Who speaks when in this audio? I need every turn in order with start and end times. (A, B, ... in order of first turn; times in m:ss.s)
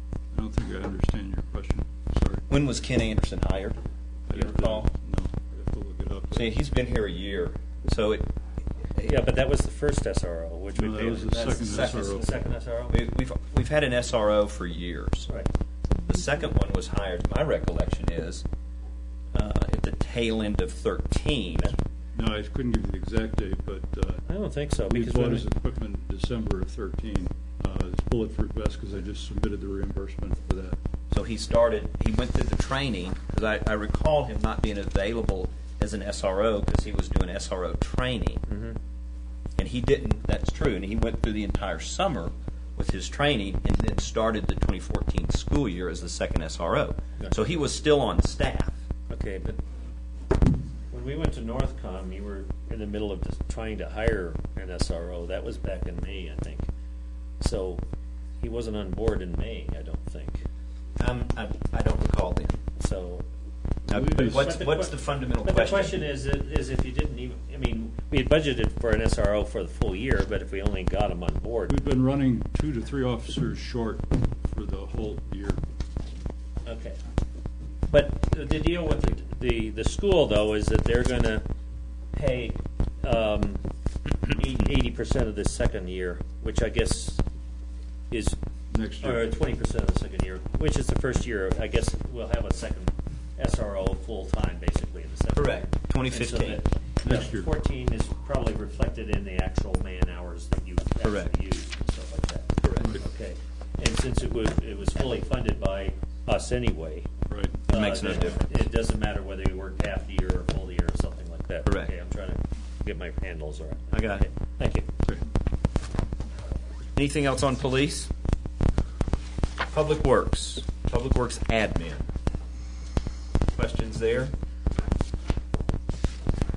0:00.3-0:02.4 A
0:02.5-0:03.8 B
0:04.3-0:06.5 A
0:04.4-0:04.9 B
0:06.3-0:08.3 B
0:09.0-0:13.0 C
0:10.7-0:12.3 A
0:11.3-0:12.3 B
0:12.9-0:15.3 B
0:16.1-0:18.4 B
0:19.3-0:21.8 B
0:22.1-0:24.2 A
0:24.3-0:25.5 C
0:24.9-0:30.8 A
0:31.1-0:38.4 B
0:38.5-0:38.8 C
0:39.6-0:48.8 B
0:49.1-0:49.6 C
0:50.9-0:56.7 C
0:57.4-0:57.8 C
0:58.4-1:00.4 C
1:01.0-1:02.6 B
1:02.8-1:03.2 C
1:03.9-1:06.0 B
1:03.9-1:04.6 A
1:04.2-1:11.8 C
1:11.7-1:15.6 A
1:16.6-1:17.0 C
1:17.9-1:21.5 C
1:22.1-1:23.6 C
1:24.3-1:27.2 C
1:28.1-1:28.4 C
1:28.7-1:29.3 A
1:29.0-1:47.1 C
1:35.3-1:36.6 B
1:37.0-1:37.5 A
1:41.0-1:41.3 B
1:42.6-1:42.9 B
1:47.3-1:47.6 A
1:47.7-1:54.9 C
1:47.7-1:48.6 B
1:51.7-1:51.9 B
1:53.9-1:54.2 B
1:57.0-1:58.1 B
1:59.7-2:02.1 B
2:03.5-2:04.3 B